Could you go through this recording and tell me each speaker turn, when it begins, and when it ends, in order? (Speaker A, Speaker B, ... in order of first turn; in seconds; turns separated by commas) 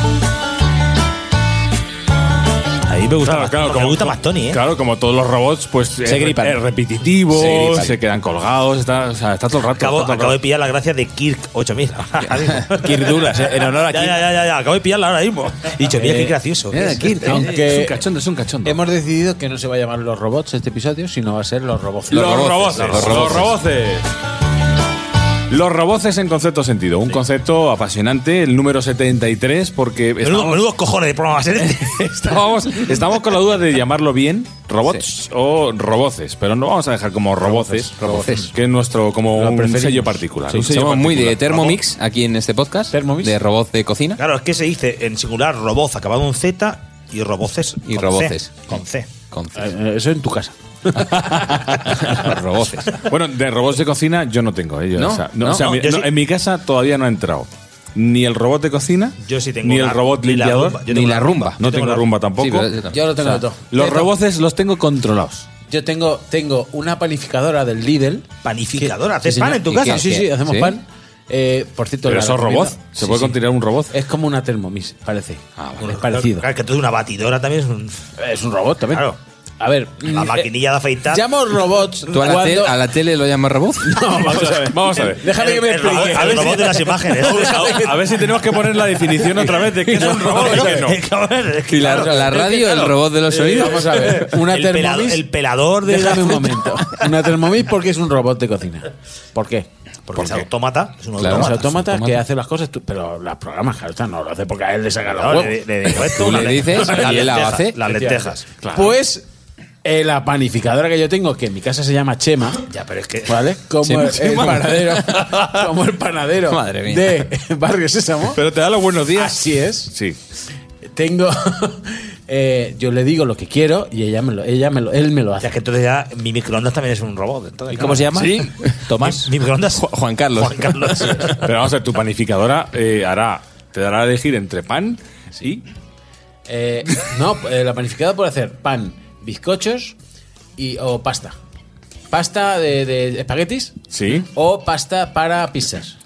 Speaker A: 2.9-4.6, Speaker B: 3.2-10.4, Speaker C: 6.0-6.6, Speaker C: 7.3-8.0, Speaker A: 9.7-13.2, Speaker C: 12.7-14.2, Speaker A: 13.9-16.8, Speaker D: 15.9-16.3, Speaker E: 16.7-17.5, Speaker D: 16.9-18.0, Speaker B: 17.0-18.8, Speaker D: 18.6-23.0, Speaker B: 22.1-24.1, Speaker E: 22.2-23.6, Speaker A: 22.7-23.3, Speaker B: 25.5-30.7, Speaker A: 30.2-32.1, Speaker B: 31.6-41.8, Speaker D: 37.4-38.5, Speaker D: 39.3-40.3, Speaker E: 40.5-44.2, Speaker A: 41.5-41.8, Speaker D: 42.9-43.4, Speaker A: 44.2-49.1, Speaker E: 47.8-49.7, Speaker D: 49.5-51.8, Speaker B: 51.0-52.3, Speaker E: 52.0-52.9, Speaker B: 53.0-62.8, Speaker E: 55.0-55.9, Speaker A: 55.6-56.1, Speaker A: 59.2-62.1, Speaker E: 60.9-61.7, Speaker E: 62.4-63.4, Speaker D: 62.9-64.1, Speaker B: 63.7-65.5, Speaker D: 65.7-73.4, Speaker A: 68.4-69.9, Speaker E: 69.6-70.8, Speaker B: 72.0-73.9, Speaker D: 73.9-76.5, Speaker B: 75.6-75.9, Speaker A: 75.8-78.0, Speaker D: 78.2-79.1, Speaker A: 78.9-79.2, Speaker D: 79.6-80.5, Speaker A: 80.0-81.2, Speaker D: 81.1-82.8, Speaker E: 82.1-84.2, Speaker D: 83.8-88.5, Speaker B: 84.2-91.0, Speaker A: 85.3-87.5, Speaker D: 89.4-90.4, Speaker A: 89.4-92.9, Speaker E: 91.7-94.2, Speaker D: 91.8-95.2, Speaker B: 93.7-94.2, Speaker A: 94.4-97.1, Speaker D: 95.8-99.7, Speaker A: 100.1-101.8, Speaker E: 101.2-102.2, Speaker D: 101.3-106.1, Speaker A: 105.1-108.5, Speaker E: 106.1-107.8, Speaker D: 106.8-107.2, Speaker D: 107.9-109.2, Speaker B: 108.6-109.0, Speaker D: 109.8-112.6, Speaker A: 112.7-113.4, Speaker D: 113.2-118.4, Speaker E: 113.8-115.2, Speaker E: 116.5-117.2, Speaker B: 118.2-120.2, Speaker D: 119.1-119.9, Speaker D: 120.8-125.5, Speaker A: 125.4-128.2, Speaker C: 127.8-129.2, Speaker A: 128.8-131.4, Speaker E: 129.7-131.3, Speaker B: 131.3-135.6, Speaker D: 136.5-139.9, Speaker D: 140.6-141.3, Speaker D: 142.1-143.7, Speaker B: 143.9-144.3, Speaker D: 144.3-145.9